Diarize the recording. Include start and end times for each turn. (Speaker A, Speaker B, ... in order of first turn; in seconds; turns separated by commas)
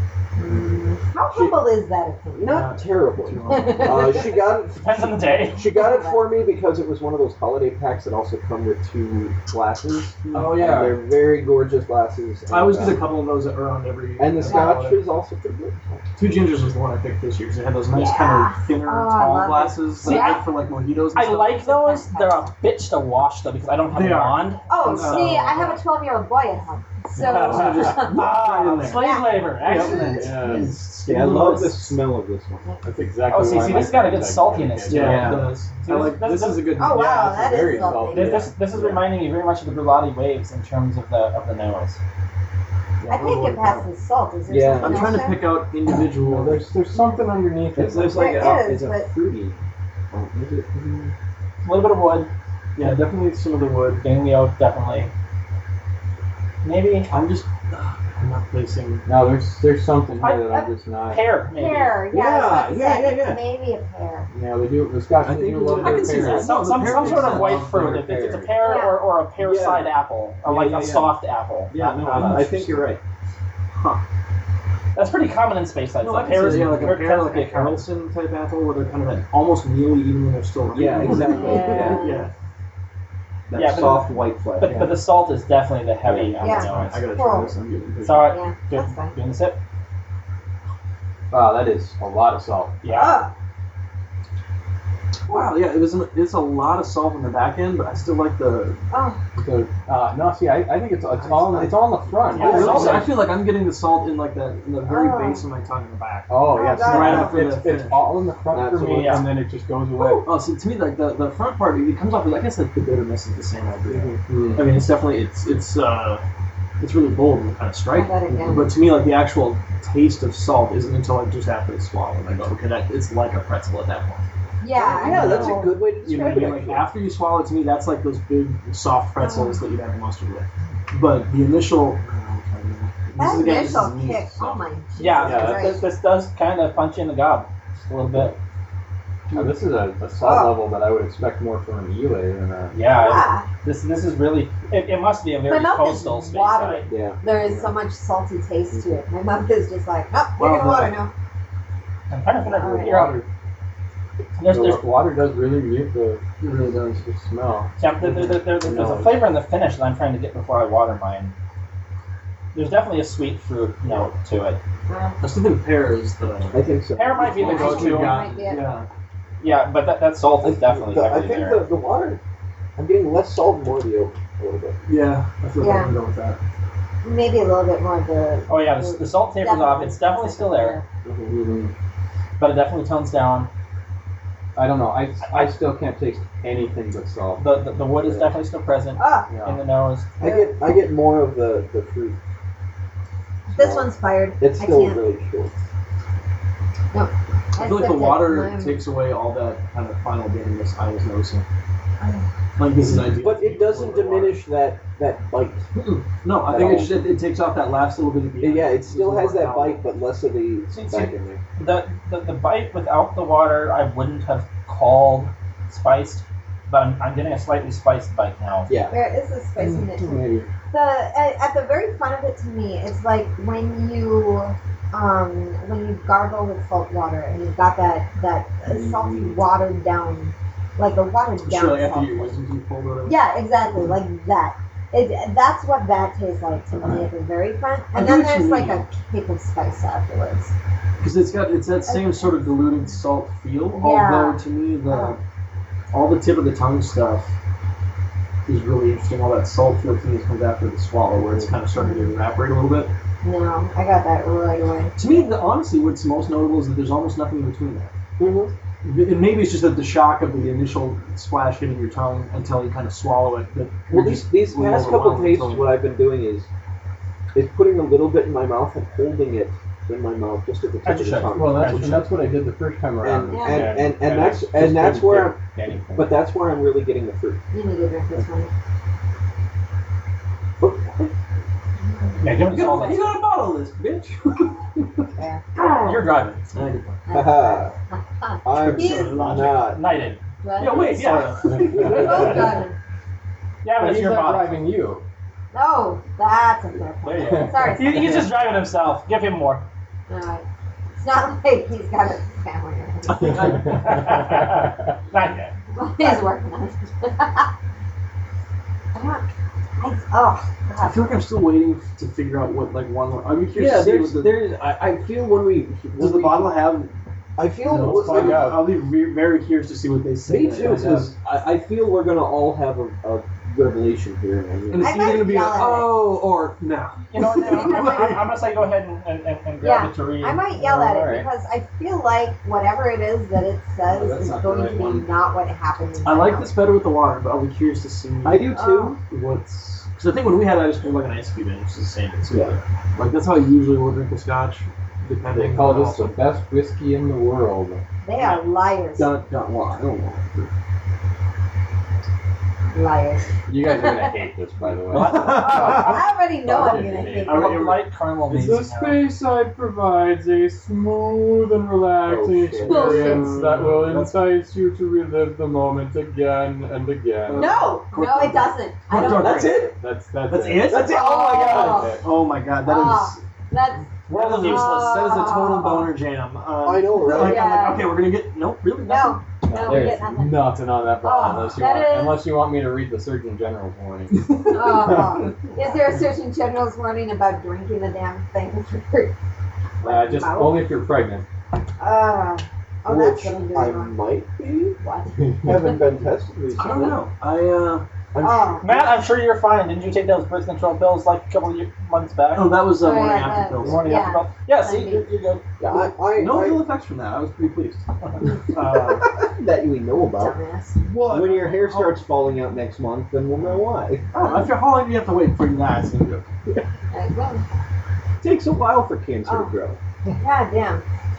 Speaker A: 0.3-2.7, Speaker B: 1.3-1.7, Speaker B: 2.4-13.1, Speaker C: 2.5-4.3, Speaker A: 3.5-4.4, Speaker D: 4.7-5.6, Speaker A: 5.6-6.3, Speaker C: 10.3-10.9, Speaker E: 10.3-11.0, Speaker C: 12.5-15.0, Speaker B: 14.2-16.1, Speaker A: 14.4-14.8, Speaker C: 16.1-21.6, Speaker A: 17.9-20.4, Speaker D: 20.0-20.4, Speaker D: 21.1-25.6, Speaker A: 21.6-22.4, Speaker C: 23.9-25.8, Speaker A: 24.7-28.2, Speaker E: 27.1-28.1, Speaker C: 27.3-29.1, Speaker D: 28.0-30.4, Speaker A: 28.8-30.1, Speaker B: 29.6-32.7, Speaker C: 29.7-32.0, Speaker E: 30.0-30.8, Speaker E: 32.8-35.5, Speaker D: 33.3-36.8, Speaker C: 34.9-37.3, Speaker B: 34.9-35.5, Speaker E: 36.8-39.0, Speaker A: 36.8-38.5, Speaker D: 38.1-42.0, Speaker C: 43.0-43.9, Speaker A: 43.1-45.5, Speaker B: 44.5-45.3, Speaker C: 44.7-46.7, Speaker E: 46.2-48.4, Speaker B: 47.8-49.6, Speaker A: 48.1-49.1, Speaker B: 50.1-51.1, Speaker D: 51.6-52.3, Speaker C: 52.8-54.0, Speaker D: 54.0-55.1, Speaker D: 56.6-57.1, Speaker C: 57.1-59.0, Speaker E: 59.0-61.3, Speaker D: 60.2-60.6, Speaker D: 61.1-62.0, Speaker A: 61.5-64.3, Speaker B: 62.1-63.4, Speaker E: 64.3-68.7, Speaker C: 65.2-67.7, Speaker B: 65.8-66.2, Speaker D: 66.2-72.6, Speaker A: 68.6-69.0, Speaker B: 69.4-69.9, Speaker B: 70.4-71.1, Speaker B: 71.7-73.0, Speaker C: 72.0-72.6, Speaker C: 73.7-74.0, Speaker D: 74.9-77.8, Speaker C: 76.0-82.3, Speaker E: 76.5-76.9, Speaker B: 80.7-82.1, Speaker A: 81.1-82.2, Speaker B: 83.5-84.9, Speaker D: 83.5-87.0, Speaker C: 84.6-84.9, Speaker B: 86.0-86.4, Speaker A: 86.4-87.5, Speaker C: 86.4-88.4, Speaker D: 88.0-89.6, Speaker A: 88.3-89.1, Speaker E: 91.3-92.8, Speaker D: 92.8-93.2, Speaker A: 92.8-93.3, Speaker C: 95.3-98.8, Speaker A: 98.9-99.2, Speaker E: 99.3-103.1, Speaker B: 101.2-103.1, Speaker D: 102.3-103.2, Speaker C: 102.3-108.1, Speaker A: 104.8-105.5, Speaker E: 106.3-110.3, Speaker A: 106.4-107.5, Speaker B: 108.5-109.3, Speaker D: 108.7-109.3, Speaker B: 110.0-110.2, Speaker C: 110.2-116.2, Speaker B: 113.9-114.2, Speaker E: 114.3-114.8, Speaker C: 116.8-124.2, Speaker A: 117.9-118.7, Speaker A: 124.6-125.7, Speaker B: 124.7-126.9, Speaker C: 124.8-134.6, Speaker A: 129.2-129.6, Speaker A: 133.2-135.8, Speaker D: 135.0-138.4, Speaker E: 135.2-135.8, Speaker E: 139.3-142.7, Speaker A: 140.2-140.7, Speaker D: 142.7-146.9, Speaker A: 142.9-143.5, Speaker A: 145.5-151.1, Speaker B: 146.9-147.2, Speaker C: 150.4-151.0, Speaker D: 152.1-153.2, Speaker A: 152.5-153.1, Speaker D: 154.4-154.9, Speaker E: 154.4-159.2, Speaker D: 157.8-161.3, Speaker D: 162.5-164.6, Speaker A: 164.9-165.2, Speaker C: 165.2-166.7, Speaker B: 166.5-167.9, Speaker D: 166.9-168.2, Speaker E: 167.4-168.3, Speaker C: 167.4-168.9, Speaker A: 167.5-168.6, Speaker D: 169.4-171.6, Speaker B: 170.4-172.2, Speaker B: 172.8-174.8, Speaker C: 174.8-176.4, Speaker A: 175.6-175.9, Speaker A: 177.0-180.8, Speaker D: 178.5-180.8, Speaker B: 181.0-181.4, Speaker E: 181.3-181.7, Speaker D: 182.4-183.5, Speaker E: 184.5-187.5, Speaker D: 185.2-185.5, Speaker D: 187.4-190.1, Speaker A: 189.0-189.3, Speaker E: 189.3-189.6, Speaker B: 190.2-192.2, Speaker A: 190.2-190.5, Speaker B: 193.5-195.5, Speaker A: 193.5-195.0, Speaker A: 196.9-198.8, Speaker C: 197.6-201.4, Speaker C: 202.6-204.4, Speaker B: 203.1-207.1, Speaker C: 206.2-209.8, Speaker B: 208.4-211.4, Speaker D: 210.7-218.7, Speaker B: 218.7-218.9, Speaker A: 218.9-232.3, Speaker E: 219.6-220.5, Speaker B: 228.7-229.3, Speaker E: 228.8-229.2, Speaker C: 231.4-233.2, Speaker A: 233.0-240.5, Speaker C: 237.9-238.8, Speaker C: 241.0-245.2, Speaker A: 241.9-242.5, Speaker A: 243.7-245.2, Speaker C: 245.9-247.3, Speaker C: 248.4-252.9, Speaker A: 251.7-252.2, Speaker A: 253.2-255.2, Speaker C: 255.0-257.9, Speaker B: 258.2-258.5, Speaker C: 258.8-265.8, Speaker B: 263.9-266.5, Speaker B: 267.3-271.8, Speaker D: 270.8-272.1, Speaker E: 271.3-276.2, Speaker B: 273.0-275.4, Speaker A: 273.3-273.8, Speaker B: 275.9-277.4, Speaker A: 277.5-278.5, Speaker B: 280.6-281.1, Speaker D: 282.2-283.2, Speaker C: 282.5-285.0, Speaker A: 285.1-285.4, Speaker C: 285.6-286.0, Speaker D: 285.6-286.5, Speaker C: 286.5-287.0, Speaker A: 287.1-289.2, Speaker B: 287.1-287.7, Speaker B: 288.4-289.8, Speaker C: 288.5-289.6, Speaker D: 288.8-292.3, Speaker A: 290.4-292.7, Speaker C: 290.6-292.6, Speaker E: 291.9-292.5, Speaker D: 293.6-294.7, Speaker E: 293.7-295.0, Speaker A: 295.5-298.2, Speaker D: 297.1-299.6, Speaker E: 297.2-298.0, Speaker A: 300.1-300.4, Speaker A: 301.0-303.8, Speaker C: 303.1-304.4, Speaker D: 303.6-305.5, Speaker E: 304.4-304.6, Speaker A: 305.7-307.5, Speaker A: 308.9-309.3, Speaker A: 309.8-311.1, Speaker C: 310.8-314.4, Speaker B: 313.5-316.6, Speaker C: 316.0-316.9, Speaker B: 317.4-318.6, Speaker C: 317.6-321.1, Speaker E: 317.7-318.7, Speaker B: 320.2-326.9, Speaker C: 324.7-328.4, Speaker A: 324.8-326.0, Speaker D: 327.1-330.4, Speaker A: 327.5-328.2, Speaker A: 329.6-336.5, Speaker E: 330.5-331.3, Speaker E: 333.9-335.1, Speaker C: 336.0-346.2, Speaker B: 338.2-339.0, Speaker A: 338.5-338.9, Speaker B: 342.3-342.6, Speaker E: 345.3-347.8, Speaker A: 348.0-349.1, Speaker B: 349.0-350.5, Speaker A: 352.7-354.2, Speaker E: 353.5-357.6, Speaker D: 354.9-356.0, Speaker A: 355.1-357.6, Speaker C: 357.2-357.9, Speaker D: 357.3-359.1, Speaker E: 358.3-367.8, Speaker B: 362.0-363.3, Speaker A: 362.6-363.2, Speaker C: 362.8-364.2, Speaker C: 367.2-369.7, Speaker A: 367.3-369.6, Speaker B: 368.9-369.7, Speaker E: 369.7-372.1, Speaker C: 370.3-373.2, Speaker B: 370.7-371.6, Speaker A: 370.8-372.0, Speaker A: 372.6-375.9, Speaker C: 374.1-379.2, Speaker B: 376.6-377.7, Speaker A: 376.9-378.0, Speaker A: 378.8-382.4, Speaker E: 379.4-384.9, Speaker C: 384.1-385.1, Speaker A: 384.5-389.1, Speaker A: 389.8-390.7, Speaker E: 389.8-391.2, Speaker A: 391.8-393.9, Speaker B: 392.9-394.8, Speaker A: 394.8-395.8, Speaker B: 395.4-397.0, Speaker C: 396.6-397.8, Speaker B: 398.1-398.9, Speaker A: 398.2-398.6, Speaker D: 398.6-402.6, Speaker C: 402.3-404.0, Speaker A: 402.7-405.1, Speaker D: 403.2-405.4, Speaker B: 405.6-406.6, Speaker C: 406.1-409.1, Speaker B: 408.6-410.4, Speaker A: 410.1-410.8, Speaker C: 410.9-412.0, Speaker B: 411.0-414.1, Speaker C: 414.1-416.3, Speaker A: 416.9-417.5, Speaker B: 418.2-419.8, Speaker A: 419.2-419.5, Speaker A: 420.2-420.8